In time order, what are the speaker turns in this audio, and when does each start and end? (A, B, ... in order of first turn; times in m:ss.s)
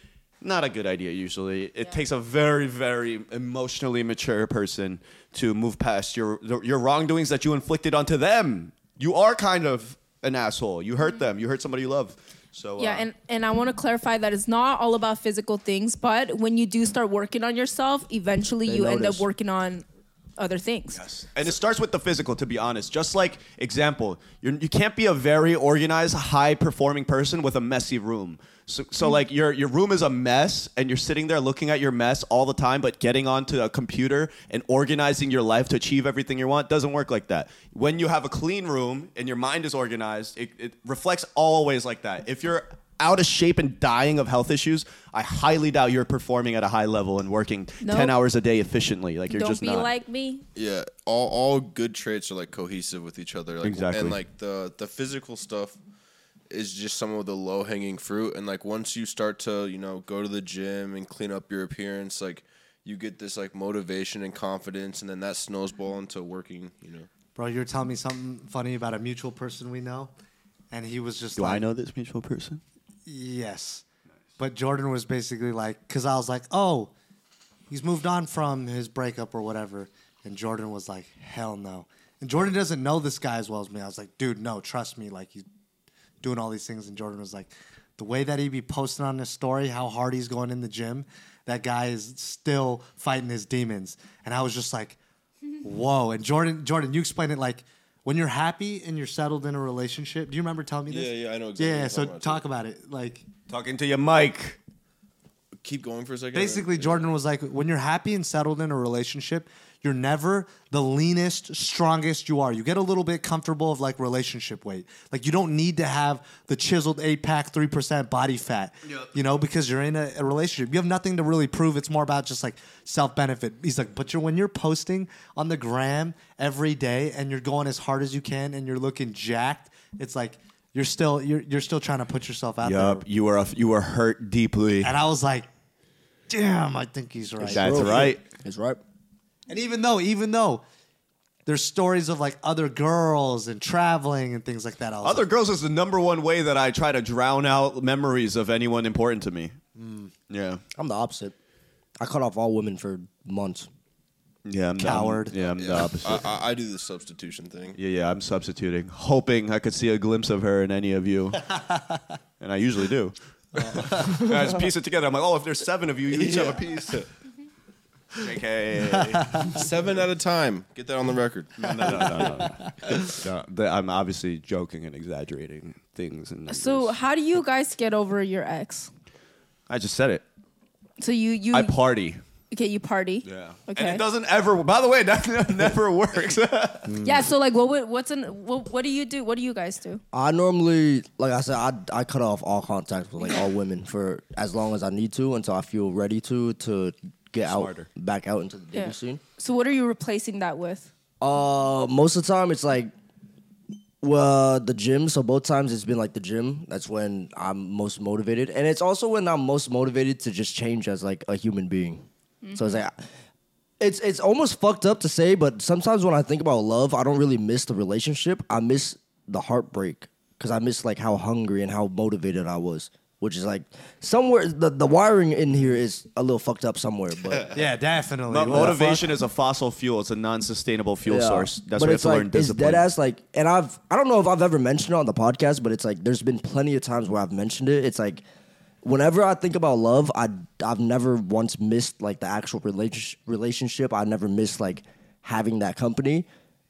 0:00.4-0:13.1 A
0:12.8-0:19.8 B
0:18.6-0:19.2 C
0:20.4-0:21.0 B
0:20.9-0:49.9 A
0:47.8-0:48.1 B
0:49.3-0:50.4 B
0:50.6-0:55.8 D
0:53.6-0:54.2 A
0:56.5-1:07.1 D
1:07.4-1:10.1 E
1:10.7-1:11.6 E
1:11.4-1:12.6 A
1:13.1-1:13.8 E
1:14.4-1:16.9 E
1:17.7-1:25.4 E
1:26.2-1:35.0 E
1:35.6-1:43.2 E
1:40.9-1:42.4 D
1:43.5-1:44.6 A
1:45.6-1:47.1 D
1:46.3-2:13.0 E
1:58.8-1:59.1 A
2:12.6-2:14.9 A
2:14.8-2:15.5 E
2:16.3-2:18.1 E
2:17.4-2:18.2 A
2:17.4-2:18.8 C
2:19.5-2:20.6 E
2:21.4-2:25.3 E
2:25.0-2:29.6 A
2:29.8-2:30.1 E
2:30.3-2:30.6 A
2:30.8-2:31.4 C
2:32.0-2:33.7 C
2:34.4-2:36.3 A
2:34.8-2:35.4 E
2:35.6-2:37.8 D
2:37.8-2:41.5 A
2:42.4-2:47.0 A
2:43.6-2:44.2 E
2:46.1-2:47.1 D
2:48.2-2:49.6 A
2:49.1-2:49.4 E
2:49.5-2:52.3 D
2:51.6-2:56.9 A
2:56.5-2:58.9 B
2:59.7-3:00.2 A
3:01.0-3:01.8 B
3:01.5-3:02.2 A
3:02.5-3:04.0 B
3:03.2-3:07.0 A
3:06.9-3:07.2 E
3:07.0-3:10.0 B
3:10.1-3:19.2 C
3:17.4-3:17.9 A
3:18.7-3:20.9 B
3:21.2-3:22.9 C
3:24.0-3:33.0 C
3:32.4-3:32.8 B
3:33.8-3:47.6 C
3:47.5-3:49.1 E
3:48.3-3:52.8 A
3:48.4-3:48.8 C
3:51.0-3:58.2 C
3:58.8-4:06.3 C